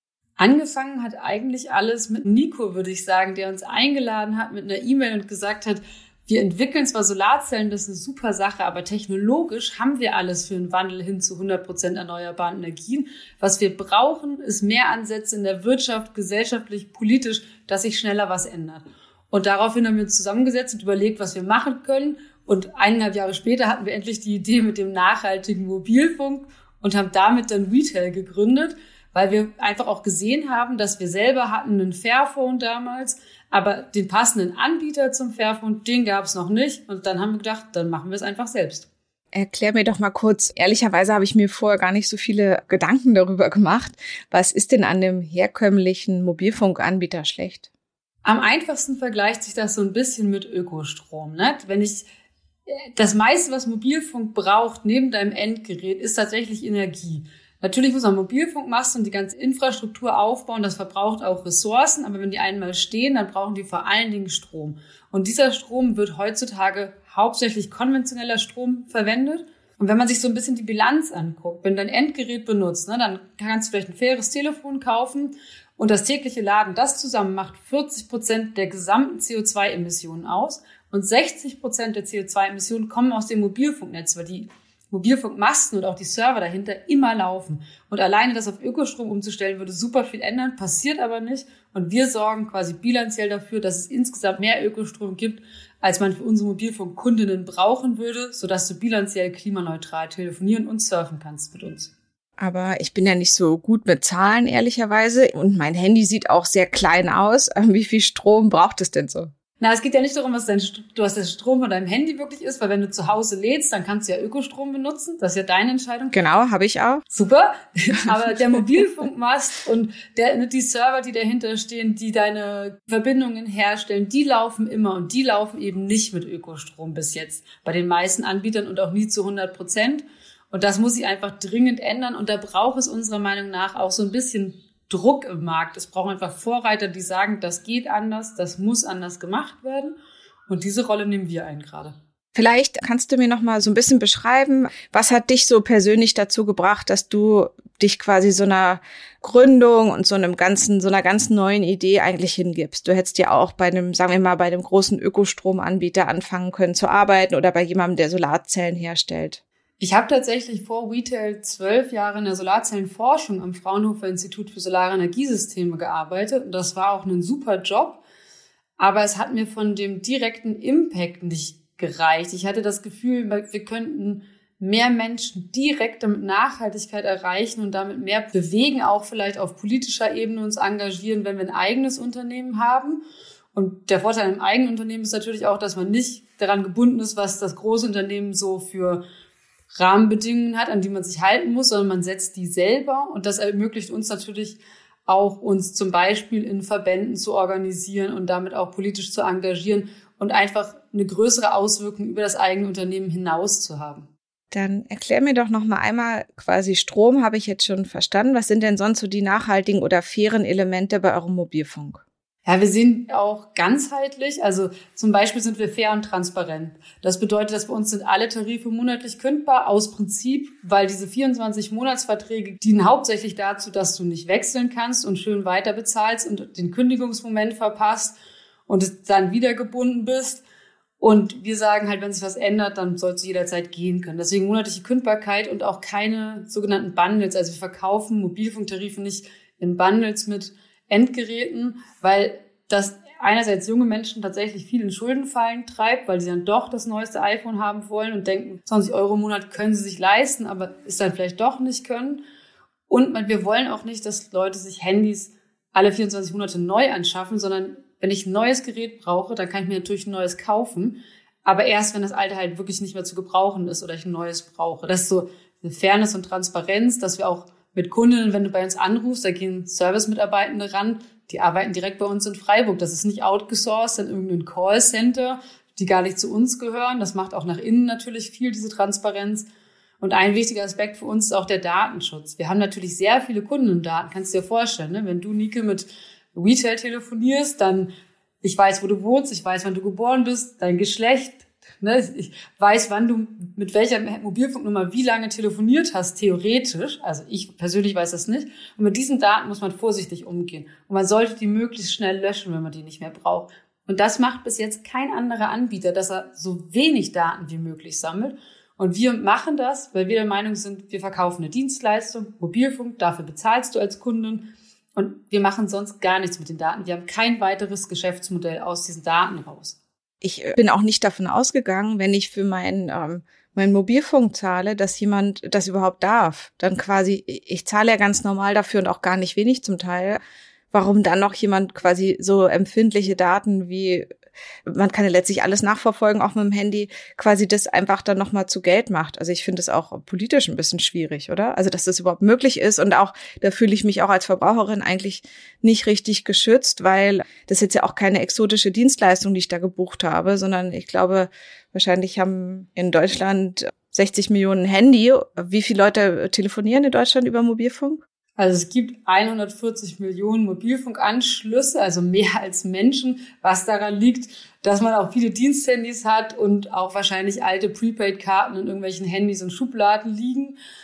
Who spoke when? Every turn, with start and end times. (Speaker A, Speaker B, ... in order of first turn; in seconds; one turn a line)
Speaker A: 0.4-38.9
Speaker B: 39.3-47.7
Speaker A: 48.2-52.1
Speaker A: 52.7-101.9
Speaker B: 102.4-109.3
Speaker A: 109.6-116.2
Speaker B: 116.1-117.0
Speaker A: 117.1-140.0
Speaker B: 118.3-118.7
Speaker A: 140.5-142.0
Speaker B: 142.3-159.4
Speaker A: 159.8-168.0
Speaker A: 168.8-183.0
Speaker A: 183.5-189.0
Speaker A: 189.8-204.1
Speaker B: 204.5-212.0
Speaker A: 212.5-228.2
Speaker A: 228.7-230.4
Speaker A: 231.0-252.2
Speaker A: 252.9-279.5
Speaker A: 280.0-287.9
Speaker A: 288.4-319.8
Speaker B: 320.2-330.2
Speaker B: 330.7-334.1
Speaker B: 334.7-358.0
Speaker A: 358.4-370.6